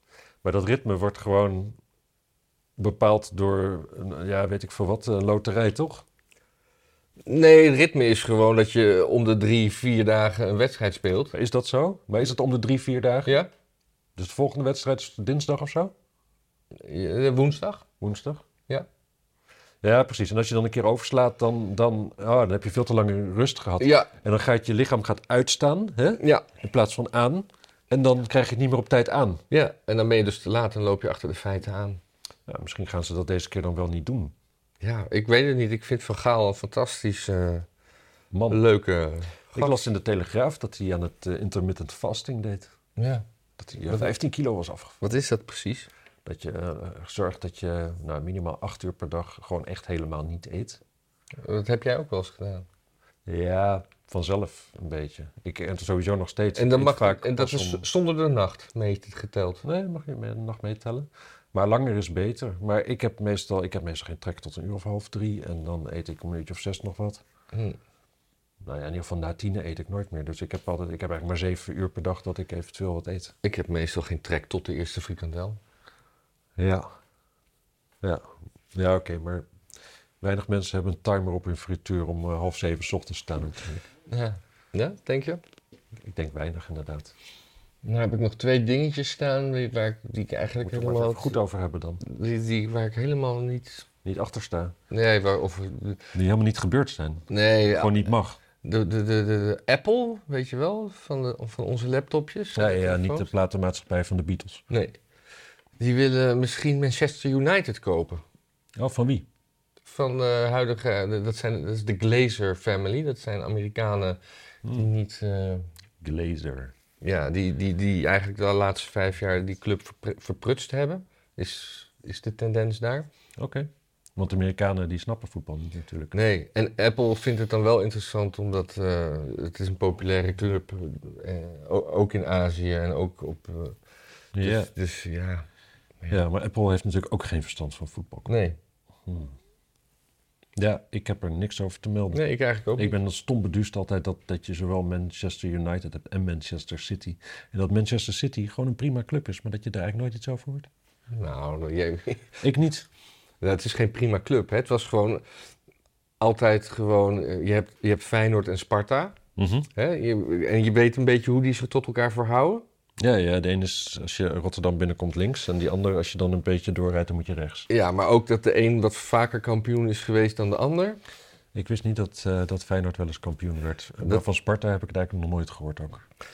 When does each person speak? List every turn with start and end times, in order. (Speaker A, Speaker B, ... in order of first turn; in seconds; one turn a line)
Speaker A: 0.4-1.8
Speaker A: 2.8-6.0
Speaker B: 7.2-11.3
Speaker A: 11.3-13.3
Speaker A: 14.2-15.9
Speaker B: 16.7-17.8
Speaker A: 18.0-18.4
Speaker A: 19.8-29.4
Speaker B: 23.8-24.1
Speaker B: 26.2-26.4
Speaker B: 29.5-32.0
Speaker A: 32.5-34.3
Speaker B: 34.8-37.7
Speaker A: 38.3-38.6
Speaker B: 38.5-39.8
Speaker A: 39.5-42.7
Speaker B: 43.0-43.2
Speaker A: 43.6-45.0
Speaker B: 45.0-45.9
Speaker A: 46.2-50.8
Speaker B: 51.4-52.6
Speaker A: 53.2-57.8
Speaker B: 56.5-59.6
Speaker A: 59.6-67.2
Speaker B: 67.5-67.8
Speaker A: 68.6-73.3
Speaker B: 73.4-75.6
Speaker A: 76.6-76.9
Speaker A: 78.0-79.5
Speaker A: 80.2-83.9
Speaker B: 84.1-85.4
Speaker A: 86.0-87.1
Speaker B: 87.8-91.4
Speaker A: 90.6-92.0
Speaker B: 92.0-93.9
Speaker A: 94.0-94.8
Speaker B: 94.9-96.0
Speaker A: 96.1-98.4
Speaker B: 97.3-98.1
Speaker B: 98.6-103.3
Speaker A: 102.5-104.6
Speaker B: 104.7-105.0
Speaker B: 105.8-108.2
Speaker A: 108.8-109.2
Speaker B: 109.8-114.2
Speaker B: 114.7-115.7
Speaker A: 116.0-116.7
Speaker B: 117.0-123.1
Speaker A: 123.4-126.2
Speaker B: 126.1-133.8
Speaker A: 134.3-134.7
Speaker B: 134.4-135.5
Speaker A: 136.1-138.4
Speaker B: 138.3-138.6
Speaker A: 139.1-139.3
Speaker A: 140.6-142.2
Speaker B: 142.1-142.9
Speaker A: 142.8-150.7
Speaker B: 151.1-152.3
Speaker A: 152.4-152.9
Speaker B: 153.4-155.2
Speaker B: 156.2-159.2
Speaker A: 159.4-159.7
Speaker B: 159.7-162.6
Speaker A: 163.0-167.7
Speaker B: 167.7-171.0
Speaker A: 171.5-176.1